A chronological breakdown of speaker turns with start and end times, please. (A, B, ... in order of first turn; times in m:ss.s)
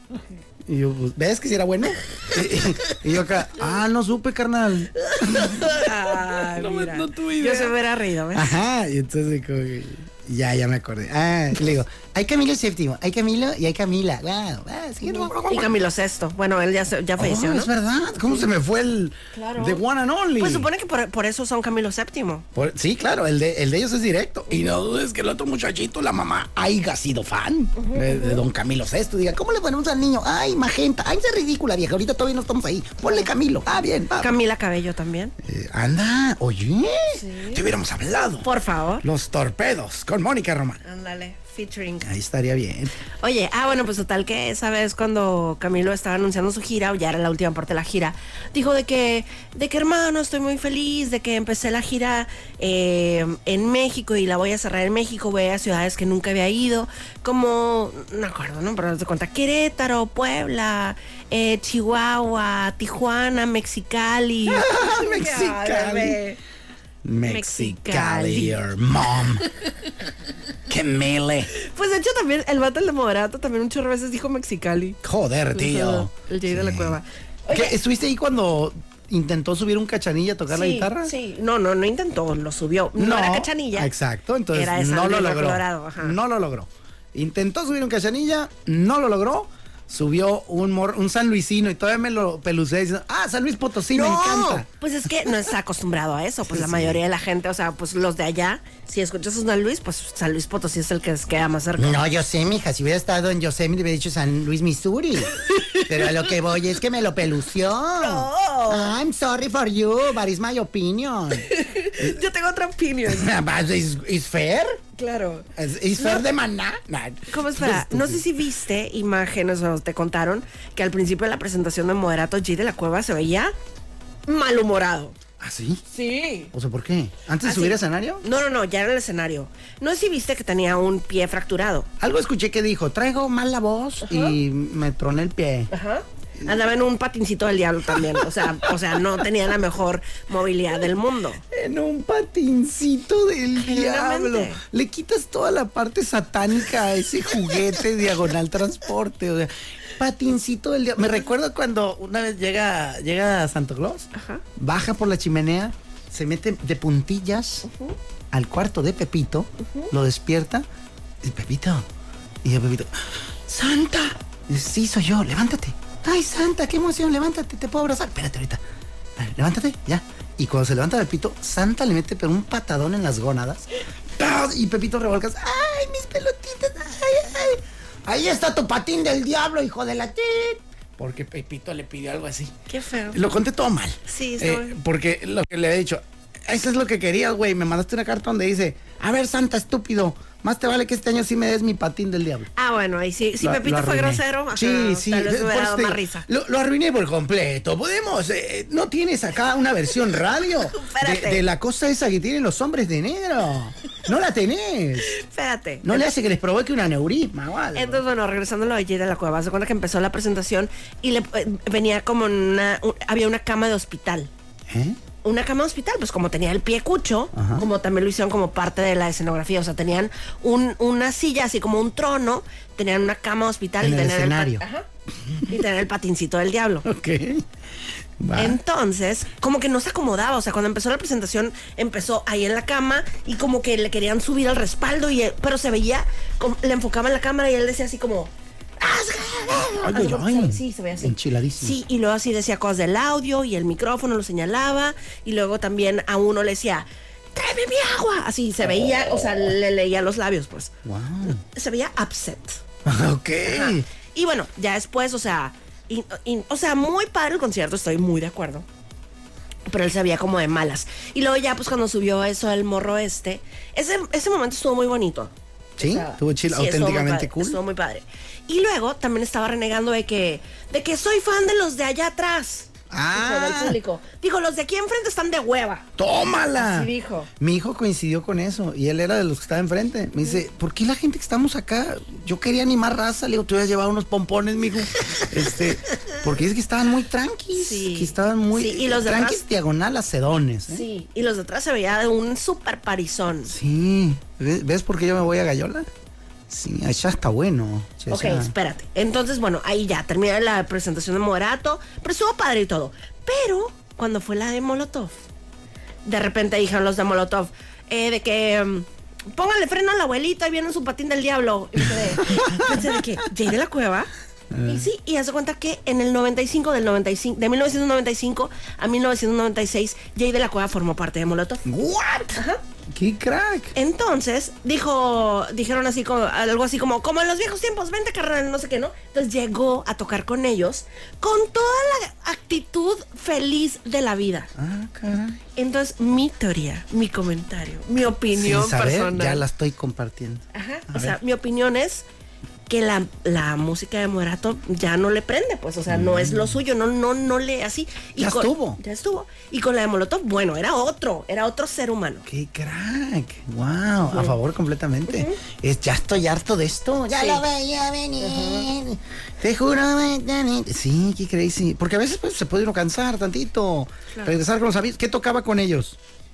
0:00.6-0:07.8 A
0:05.0-0:08.6 B
0:08.3-0:15.8 A
0:15.0-0:17.7 B
0:17.2-0:20.7 A
0:19.3-0:19.8 B
0:20.4-0:22.4 B
0:22.5-0:34.4 A
0:27.8-0:28.4 B
0:34.2-0:35.3 B
0:35.4-0:38.5 A
0:37.1-0:37.6 B
0:38.4-0:39.0 B
0:39.0-0:40.8 A
0:40.8-0:42.1 B
0:42.0-0:42.9 A
0:43.2-1:06.4 B
1:04.5-1:06.2 A
1:07.0-1:09.5 A
1:07.2-1:08.6 B
1:10.7-1:11.5 A
1:11.5-1:15.0 B
1:15.0-1:17.0 A
1:15.5-1:17.7 B
1:17.5-1:21.1 A
1:20.5-1:23.9 B
1:23.0-1:34.7 A
1:24.5-1:26.2 B
1:33.9-1:42.0 B
1:36.5-1:37.0 A
1:41.8-1:52.2 A
1:45.4-1:46.3 B
1:48.0-1:49.0 B
1:51.3-1:53.3 B
1:53.1-1:54.8 A
1:55.0-1:55.5 B
1:55.6-1:58.2 A
1:56.0-1:56.2 B
1:57.3-2:03.5 B
2:04.2-2:05.2 B
2:05.4-2:05.8 A
2:05.9-2:06.5 B
2:06.5-2:08.2 A
2:07.4-2:11.9 B
2:12.0-2:15.7 A
2:14.0-2:14.4 B
2:15.7-2:21.4 B
2:17.9-2:18.7 A
2:21.5-2:37.7 A
2:23.6-2:24.6 B
2:34.1-2:34.4 B
2:37.6-2:38.0 B
2:38.3-2:40.6 A
2:39.6-2:39.9 B
2:41.2-2:41.8 A
2:42.4-2:48.6 A
2:49.2-2:53.6 A
2:54.2-3:02.5 A
3:02.7-3:03.2 B
3:03.1-3:12.5 A
3:04.1-3:04.8 B
3:12.6-3:16.3 B
3:13.4-3:25.2 A
3:20.6-3:21.4 B
3:25.0-3:26.1 B
3:25.8-3:28.0 A
3:27.7-3:34.3 B
3:34.7-3:35.0 A
3:35.2-3:44.8 B
3:37.3-3:37.6 A
3:43.8-3:44.6 A
3:45.5-3:46.8 B
3:46.8-3:47.4 A
3:48.2-3:48.6 A
3:48.4-4:10.7 B
3:59.8-4:01.8 A
4:10.8-4:11.4 A
4:11.2-4:12.6 B
4:12.8-4:13.8 A
4:13.4-4:18.6 B
4:19.6-4:35.8 B
4:25.8-4:27.6 A
4:32.9-4:33.8 A
4:36.0-4:50.8 A
4:36.6-4:37.3 B
4:47.5-4:49.4 B
4:50.7-4:53.5 B
4:53.5-4:55.9 A
4:56.5-4:58.5 A
4:58.1-5:05.2 B
5:06.0-5:14.1 B
5:12.2-5:13.0 A
5:14.5-5:14.9 A
5:14.6-5:21.6 B
5:21.6-5:23.7 A
5:22.3-5:22.6 B
5:23.7-5:34.5 B
5:34.5-5:35.4 A
5:35.6-5:39.4 B
5:38.3-5:41.2 A
5:40.5-5:42.0 B
5:42.7-5:52.2 B
5:45.9-5:46.6 A
5:48.2-5:48.8 A
5:52.2-6:06.0 A
5:54.1-5:54.3 B
5:55.1-5:55.4 B
5:57.1-5:57.4 B
5:58.2-5:58.7 B